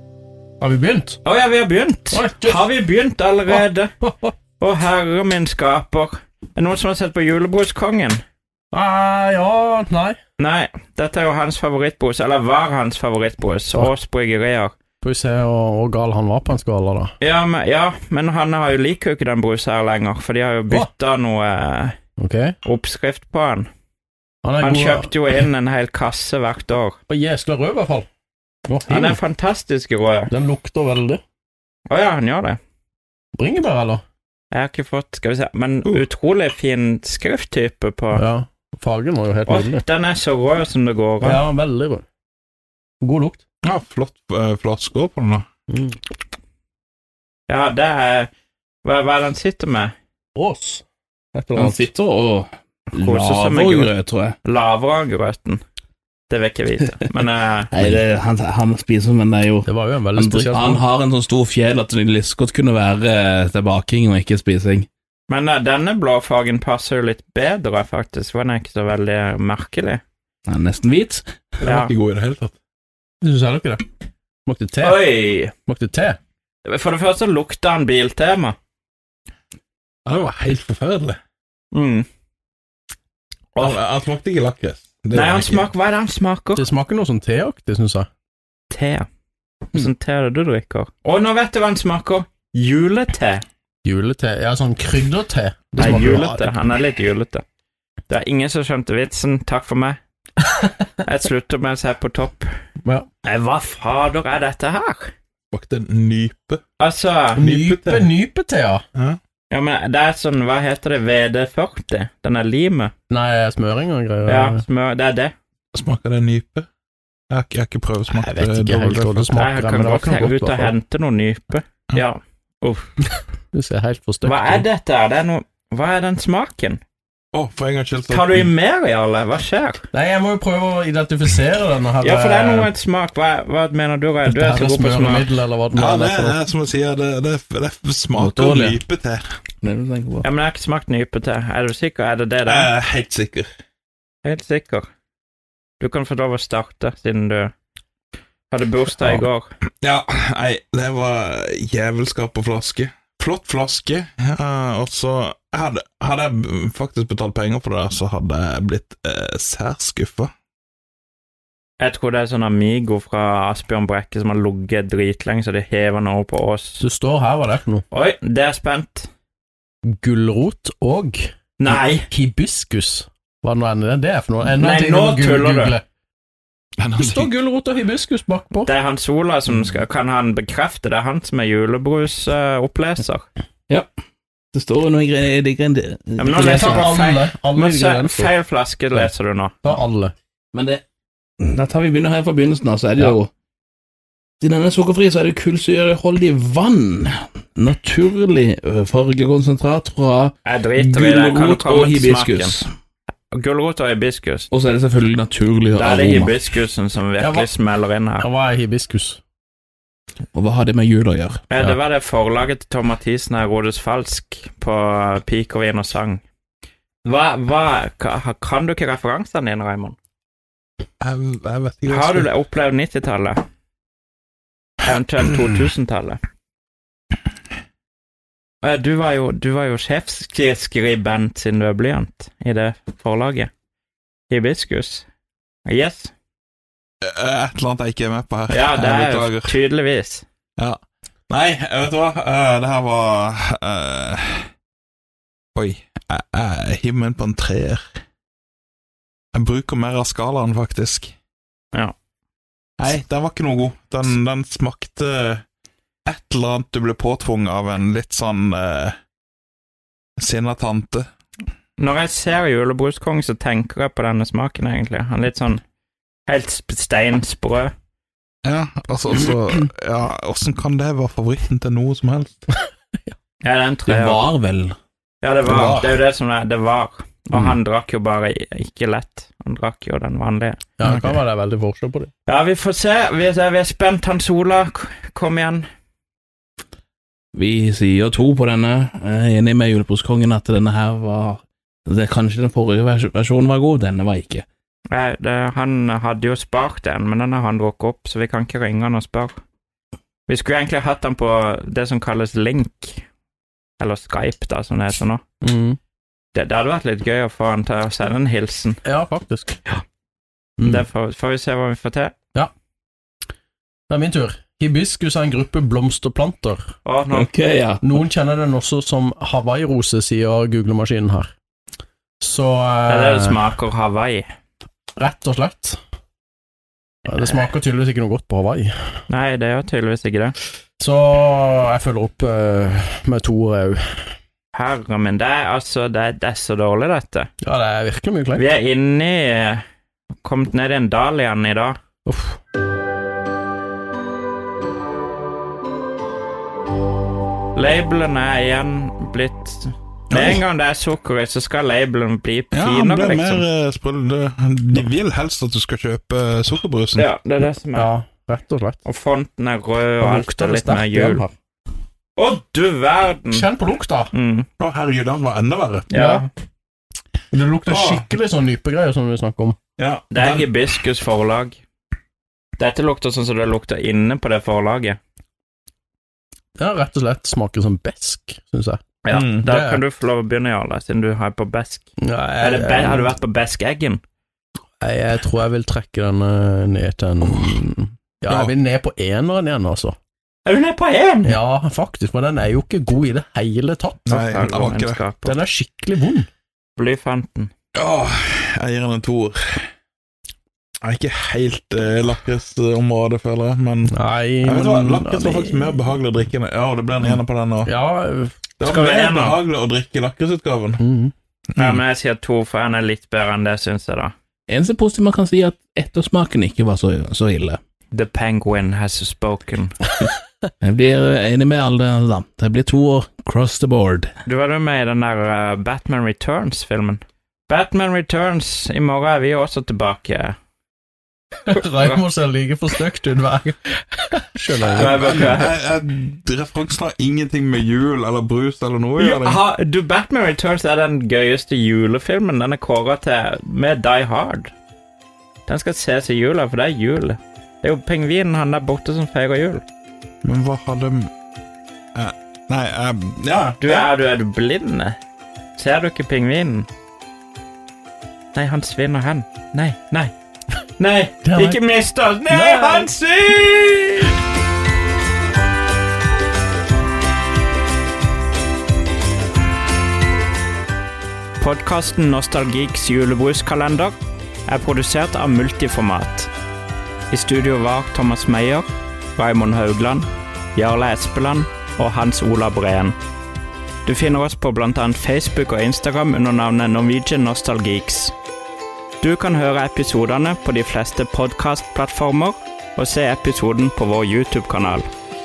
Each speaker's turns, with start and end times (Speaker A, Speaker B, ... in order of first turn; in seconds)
Speaker A: 0.6-1.2, 2.1-2.6, 4.0-4.3, 8.7-10.2, 15.0-17.1, 22.2-22.6, 24.4-25.1, 27.1-28.1, 28.7-29.2, 30.3-31.2, 33.4-34.0, 38.1-39.8, 41.2-42.0, 43.0-43.4, 45.7-46.0, 50.3-51.9, 59.6-60.8, 73.2-73.8, 74.5-75.0, 75.6-76.2, 86.5-88.1, 93.8-96.4, 107.3-108.8, 113.1-114.6, 118.1-120.7, 123.5-124.6, 129.9-132.7, 134.2-136.4, 166.8-167.8, 170.0-175.8, 177.0-178.7, 186.3-188.3, 189.6-190.1, 207.2-207.5, 208.2-209.2, 280.8-282.1, 305.4-305.8, 308.8-309.6, 310.6-310.9, 313.9-316.7, 317.8-321.3, 322.2-323.4, 324.9-325.8, 327.1-328.7, 330.8-334.0, 337.4-338.4, 342.1-342.4, 357.7-358.8, 360.0-361.3, 363.3-364.1, 365.9-366.2, 367.3-369.6, 376.6-378.8, 379.4-379.8, 382.0-383.1, 384.8-389.9, 391.2-394.4, 395.2-396.3, 403.9-405.8, 407.6-408.3, 410.8-411.1, 431.5-435.3, 461.2-461.6, 462.3-462.9
Speaker B: 1.2-3.9, 4.6-8.2, 10.4-14.7, 17.2-21.9, 22.6-23.7, 24.6-27.0, 28.9-30.3, 31.9-32.6, 34.5-38.2, 39.5-41.4, 47.5-48.3, 48.8-49.9, 52.9-53.9, 54.4-55.6, 56.3-57.7, 65.3-70.0, 71.6-71.9, 74.8-75.5, 76.7-78.6, 81.7-82.0, 85.1-86.6, 88.7-89.0, 89.7-93.4, 95.8-97.4, 98.1-100.0, 101.0-102.5, 103.2-105.1, 106.8-107.4, 109.5-112.9, 114.2-115.3, 119.3-122.9, 124.2-126.8, 128.1-129.8, 132.0-135.3, 140.2-142.7, 144.2-144.8, 145.8-147.5, 148.5-149.5, 161.8-166.8, 167.9-169.1, 171.6-172.1, 174.5-175.8, 178.6-183.2, 186.2-189.5, 200.4-202.6, 203.3-204.5, 205.7-208.2, 211.5-216.2, 217.0-220.0, 221.9-223.4, 224.8-226.2, 228.6-233.5, 234.3-235.1, 235.7-236.1, 238.5-240.2, 261.8-265.6, 266.3-267.7, 273.4-274.3, 275.2-280.6, 282.2-285.6, 294.9-299.3, 300.3-303.0, 303.8-305.2, 306.3-308.8, 310.6-312.1, 316.8-317.3, 322.9-324.2, 329.1-330.3, 334.5-337.3, 338.4-339.6, 340.2-341.8, 347.5-353.4, 356.9-357.9, 358.8-361.2, 362.1-363.4, 364.1-364.4, 365.9-366.3, 370.1-371.6, 372.6-375.0, 379.0-381.9, 382.4-384.0, 390.4-391.3, 394.1-395.4, 396.8-397.5, 408.6-409.4, 411.6-414.1, 417.9-419.8, 424.2-430.4, 434.7-435.5, 439.0-444.5, 445.5-449.6, 453.6-455.0, 455.6-456.7, 458.3-460.1, 460.8-464.2, 471.4-473.9, 474.5-476.3, 477.1-482.9, 483.8-488.1, 489.0-494.9
Speaker C: 43.6-45.5, 71.6-72.5, 80.0-81.2, 83.6-85.7, 95.8-96.5, 105.5-106.6, 107.4-108.1, 115.7-116.7, 117.3-119.4, 127.3-128.5, 135.7-139.2, 142.5-143.5, 149.8-160.3, 176.8-177.3, 221.0-222.3, 237.0-239.6, 241.3-244.5, 245.5-247.8, 249.3-251.1, 252.8-255.4, 256.1-258.9, 260.2-261.1, 268.4-272.4, 275.5-276.0, 280.8-281.2, 350.1-350.4, 352.5-357.1, 364.6-365.9, 367.7-368.1, 369.8-370.5, 379.1-379.4, 394.1-395.0, 397.7-399.7, 400.8-407.7, 408.6-410.8, 411.5-411.8, 434.7-439.4, 450.2-451.1, 451.9-453.9
Speaker D: 51.5-54.4, 57.7-64.9, 70.5-71.2, 138.1-138.8, 139.6-140.2, 184.5-186.8, 190.5-190.8, 191.4-193.3, 194.4-202.6, 204.5-206.3, 210.3-211.7, 273.9-274.8, 287.3-294.4, 317.1-317.8, 414.5-417.6, 420.6-424.1